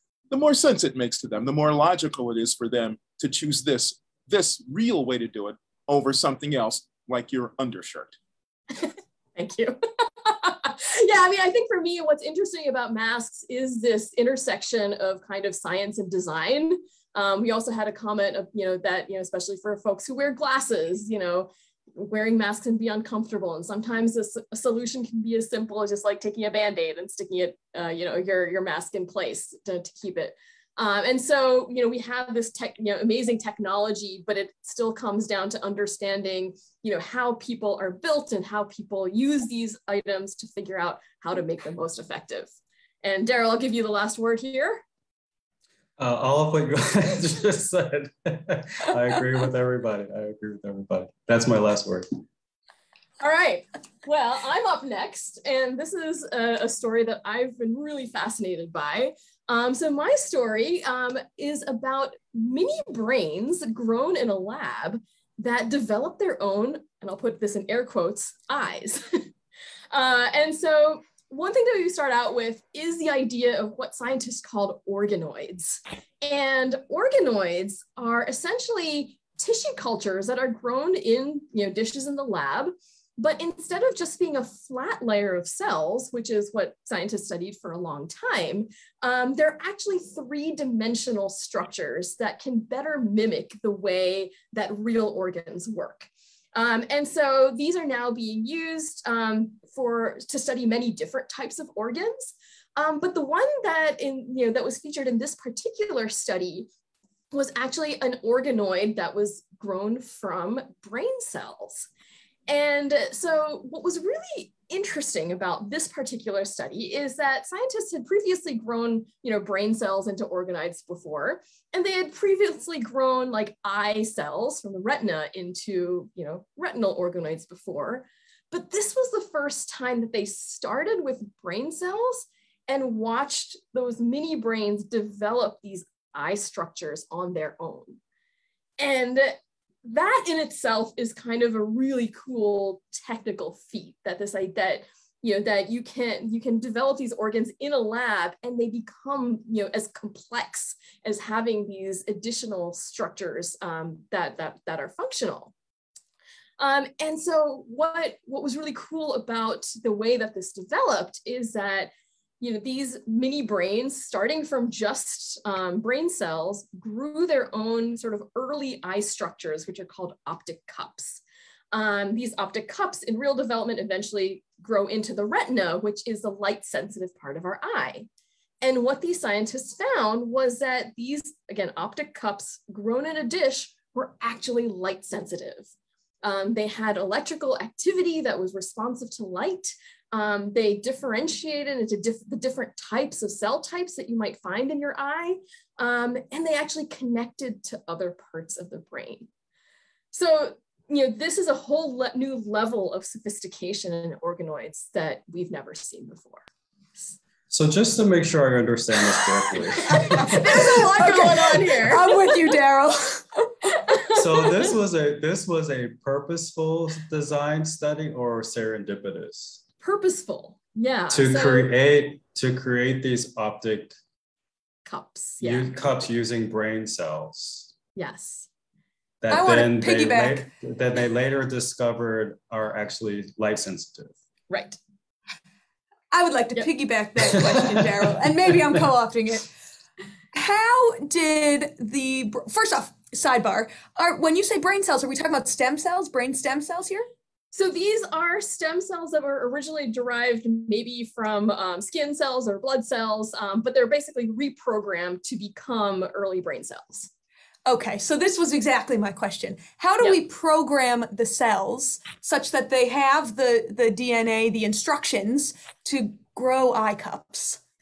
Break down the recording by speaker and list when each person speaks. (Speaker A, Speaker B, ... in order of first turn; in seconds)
Speaker A: 0.3-8.2
Speaker B: 8.7-42.5, 43.0-44.8, 53.2-69.3, 69.9-106.7, 107.3-111.9, 112.5-138.0, 138.8-155.5, 156.6-178.1, 178.6-185.7, 186.2-199.3, 200.1-206.4, 209.9-212.4, 213.9-214.4, 219.8-221.7, 224.8-225.8, 227.9-228.5, 234.5-234.8, 247.5-257.1
Speaker C: 46.0-52.2, 207.5-210.5, 214.1-219.6, 221.1-223.9, 225.4-227.7, 229.2-234.2
Speaker D: 209.9-213.7, 229.3-230.5, 236.1-239.5, 240.3-247.1, 257.6-267.6